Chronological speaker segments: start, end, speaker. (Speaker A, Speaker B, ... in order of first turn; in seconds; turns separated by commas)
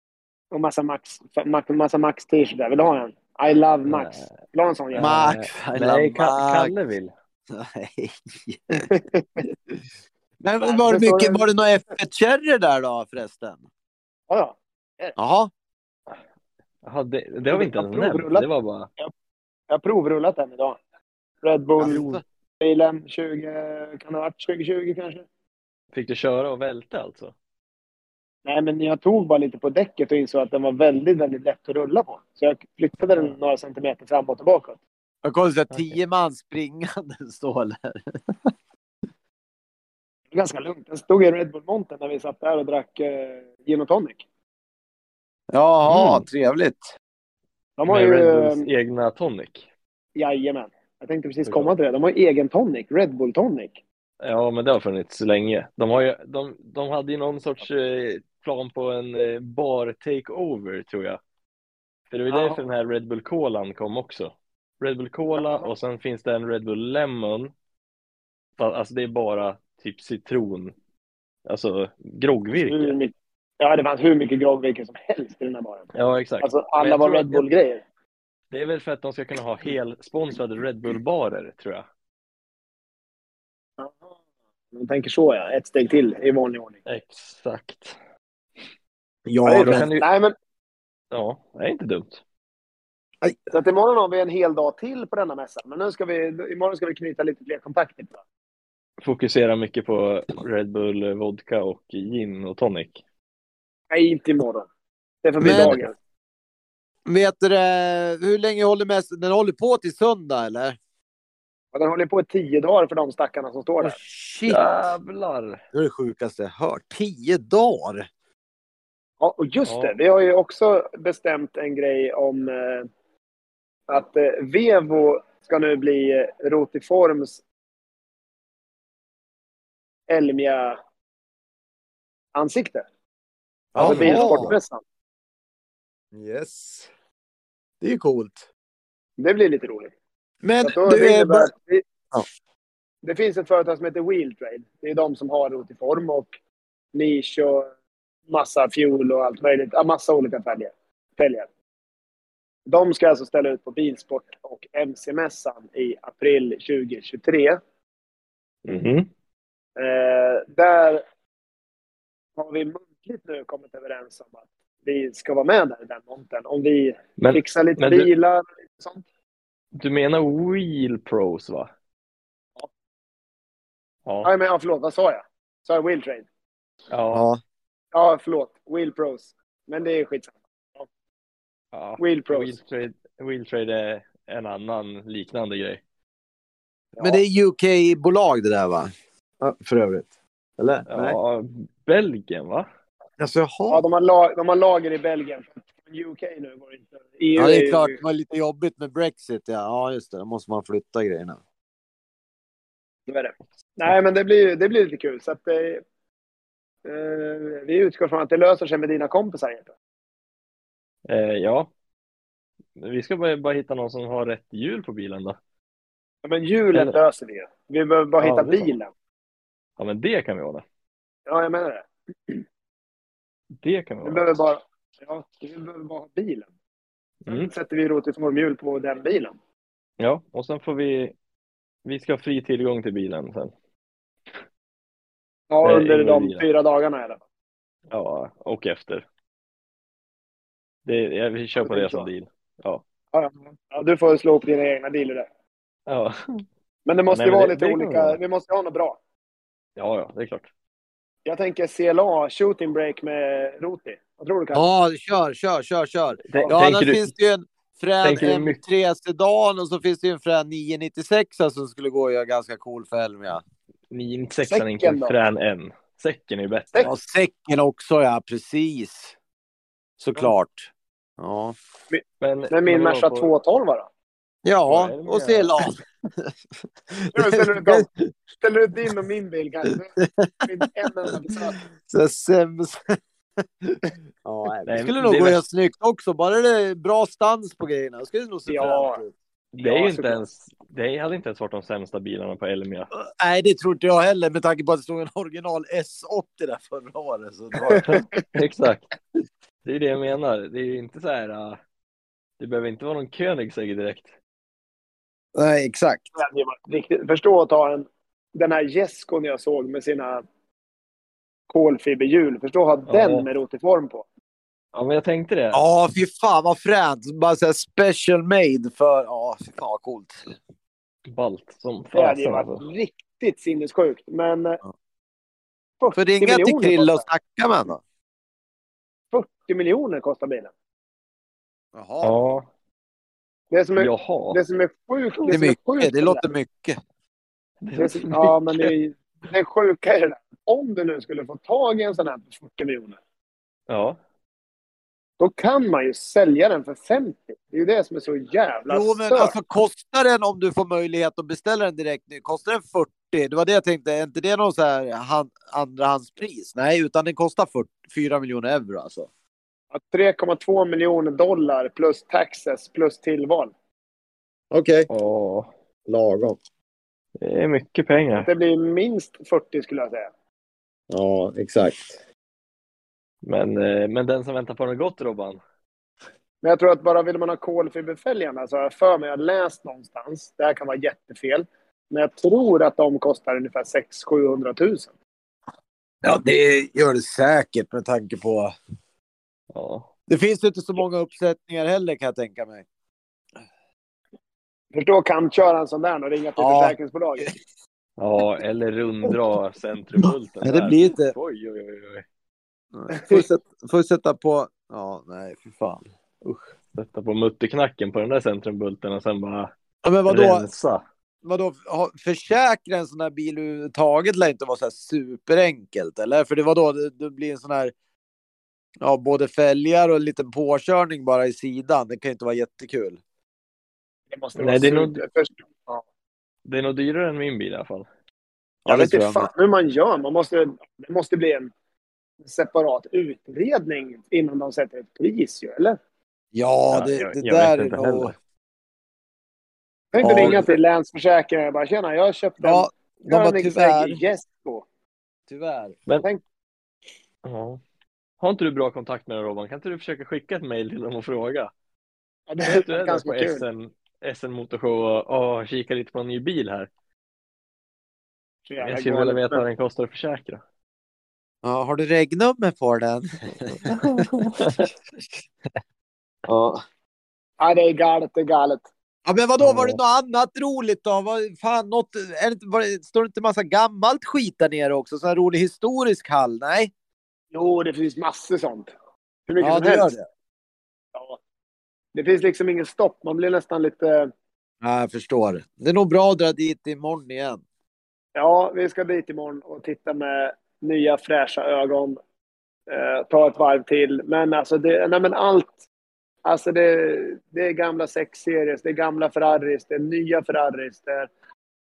Speaker A: 0.5-5.2, Speaker B: 3.9-4.3, Speaker B: 4.9-7.1, Speaker C: 5.0-6.7, Speaker C: 7.5-8.8, Speaker A: 8.7-9.4, Speaker C: 10.4-13.6, Speaker A: 10.6-11.5, Speaker A: 14.3-15.2, Speaker C: 15.2-15.5, Speaker B: 16.8-18.9, Speaker A: 17.5-18.5, Speaker A: 19.7-20.8, Speaker A: 21.4-22.0, Speaker C: 21.8-22.2, Speaker B: 21.8-22.2, Speaker A: 22.6-25.2, Speaker B: 25.9-27.3, Speaker A: 28.4-34.8, Speaker B: 33.1-33.4, Speaker C: 35.2-38.5, Speaker B: 35.7-36.0, Speaker A: 40.3-44.2, Speaker C: 45.5-46.8, Speaker B: 45.9-46.2, Speaker A: 47.8-48.7, Speaker B: 47.9-49.6, Speaker A: 50.1-53.8, Speaker B: 51.5-51.7, Speaker B: 54.2-61.2, Speaker B: 62.1-67.5, Speaker A: 62.3-62.6, Speaker A: 65.3-65.7, Speaker B: 68.6-70.7, Speaker B: 71.5-73.0, Speaker A: 72.5-75.9, Speaker B: 75.9-77.5, Speaker A: 76.4-77.8, Speaker B: 78.5-81.8, Speaker A: 83.8-84.1, Speaker A: 84.7-86.8, Speaker B: 86.8-88.0, Speaker C: 89.2-89.9, Speaker A: 89.4-90.3, Speaker B: 89.6-90.1, Speaker B: 91.1-92.2, Speaker A: 93.5-98.2, Speaker B: 99.0-103.0, Speaker A: 103.9-104.7, Speaker A: 105.2-105.9, Speaker C: 105.4-105.8, Speaker B: 105.4-105.8, Speaker C: 107.0-110.8, Speaker A: 111.7-114.0, Speaker C: 113.8-114.9, Speaker B: 114.5-115.6, Speaker C: 115.7-118.1, Speaker A: 119.2-122.9, Speaker B: 119.6-120.0, Speaker A: 123.9-127.4, Speaker A: 130.1-130.8, Speaker A: 132.3-132.8, Speaker C: 133.7-134.6, Speaker A: 133.8-134.8, Speaker B: 133.8-134.3, Speaker C: 136.1-136.9, Speaker C: 137.8-138.4, Speaker A: 139.2-139.9, Speaker C: 140.4-141.5, Speaker A: 140.6-141.8, Speaker A: 143.0-146.3, Speaker A: 146.9-147.7, Speaker A: 148.3-151.5, Speaker A: 152.7-157.6, Speaker B: 158.6-159.1, Speaker A: 159.8-161.0, Speaker A: 162.4-169.0, Speaker B: 167.2-168.1, Speaker B: 169.7-171.7, Speaker B: 174.1-174.3, Speaker A: 174.2-176.2, Speaker B: 176.9-177.2, Speaker C: 177.1-177.4, Speaker A: 177.9-180.9, Speaker B: 181.7-185.8, Speaker A: 182.0-182.5, Speaker A: 186.9-187.2, Speaker C: 187.0-191.2, Speaker B: 190.9-192.7, Speaker C: 193.2-193.8, Speaker A: 193.7-198.0, Speaker C: 197.3-201.4, Speaker A: 203.1-205.8, Speaker A: 206.8-209.7, Speaker B: 211.1-211.7, Speaker B: 212.8-215.4, Speaker A: 216.2-218.9, Speaker B: 218.2-218.7, Speaker B: 219.8-220.6, Speaker A: 221.3-222.4, Speaker B: 223.6-224.3, Speaker A: 224.0-226.5, Speaker B: 227.2-227.5, Speaker A: 227.3-229.3, Speaker B: 230.0-231.1, Speaker B: 231.8-233.5, Speaker A: 235.5-237.2, Speaker B: 235.6-236.4, Speaker B: 237.9-239.0, Speaker B: 240.8-242.8, Speaker A: 241.6-242.1, Speaker A: 243.1-245.3, Speaker B: 245.9-246.4, Speaker A: 246.8-249.0, Speaker B: 247.1-248.2, Speaker B: 249.8-250.5, Speaker A: 251.2-254.6, Speaker C: 254.5-263.4, Speaker B: 256.2-257.1, Speaker B: 258.0-258.6, Speaker B: 263.9-266.9, Speaker A: 264.4-265.1, Speaker C: 266.8-269.1, Speaker C: 270.0-271.6, Speaker A: 271.9-273.9, Speaker B: 272.2-273.3, Speaker C: 274.4-276.3, Speaker B: 274.7-275.5, Speaker C: 276.9-278.1, Speaker A: 277.1-277.9, Speaker A: 278.4-281.6, Speaker C: 280.0-280.5, Speaker C: 281.6-282.8, Speaker C: 283.6-289.1, Speaker B: 284.6-285.4, Speaker A: 288.5-289.0, Speaker B: 289.5-292.9, Speaker A: 289.6-290.2, Speaker C: 292.9-297.9, Speaker A: 297.6-298.1, Speaker B: 297.8-298.9, Speaker B: 299.6-301.6, Speaker B: 302.4-304.1, Speaker C: 305.4-306.1, Speaker A: 306.1-310.2, Speaker A: 311.5-314.1, Speaker B: 312.9-313.3, Speaker B: 314.7-315.6, Speaker C: 315.5-320.3, Speaker B: 321.1-322.6, Speaker A: 321.9-324.6, Speaker A: 325.8-327.1, Speaker C: 325.9-327.8, Speaker A: 329.1-330.5, Speaker C: 331.7-332.1, Speaker B: 332.0-332.4, Speaker A: 333.5-336.3, Speaker B: 333.8-334.4, Speaker C: 335.3-336.8, Speaker B: 337.6-338.7, Speaker A: 337.8-343.0, Speaker B: 343.7-344.0, Speaker A: 345.2-349.4, Speaker C: 348.7-359.1, Speaker A: 359.7-363.5, Speaker C: 364.5-364.9, Speaker B: 364.9-365.5, Speaker C: 365.9-366.4, Speaker B: 367.2-368.3, Speaker A: 368.1-370.1, Speaker C: 370.9-372.0, Speaker B: 373.2-375.4, Speaker A: 376.4-384.9, Speaker C: 386.0-388.5, Speaker B: 389.5-389.9, Speaker C: 390.1-392.6, Speaker A: 394.7-397.3, Speaker C: 396.4-397.3, Speaker B: 398.0-402.0, Speaker C: 400.1-401.1, Speaker C: 402.7-405.9, Speaker A: 402.9-403.2, Speaker B: 406.2-409.5, Speaker C: 409.8-410.4, Speaker B: 410.1-410.8, Speaker C: 411.2-417.7, Speaker C: 418.8-423.0, Speaker A: 424.1-425.8, Speaker B: 424.4-425.0, Speaker B: 426.4-427.9, Speaker C: 428.6-429.3, Speaker A: 428.7-431.5, Speaker A: 432.2-435.8, Speaker C: 436.3-438.1, Speaker B: 436.7-438.1, Speaker A: 439.9-444.6, Speaker C: 440.0-440.4, Speaker C: 442.4-444.0, Speaker C: 445.3-445.8, Speaker B: 447.2-447.6, Speaker B: 448.2-451.5, Speaker A: 452.3-453.4, Speaker B: 452.4-456.7, Speaker A: 458.5-459.4, Speaker B: 458.6-460.4, Speaker C: 461.4-464.1, Speaker B: 463.6-464.7, Speaker C: 466.2-466.6, Speaker A: 467.4-468.7, Speaker C: 469.1-476.7, Speaker B: 469.4-469.8, Speaker A: 477.3-478.7, Speaker A: 479.3-479.9, Speaker C: 479.4-480.0, Speaker A: 481.9-484.1, Speaker C: 484.6-487.4, Speaker A: 488.1-492.0, Speaker A: 492.7-495.6, Speaker A: 496.2-501.1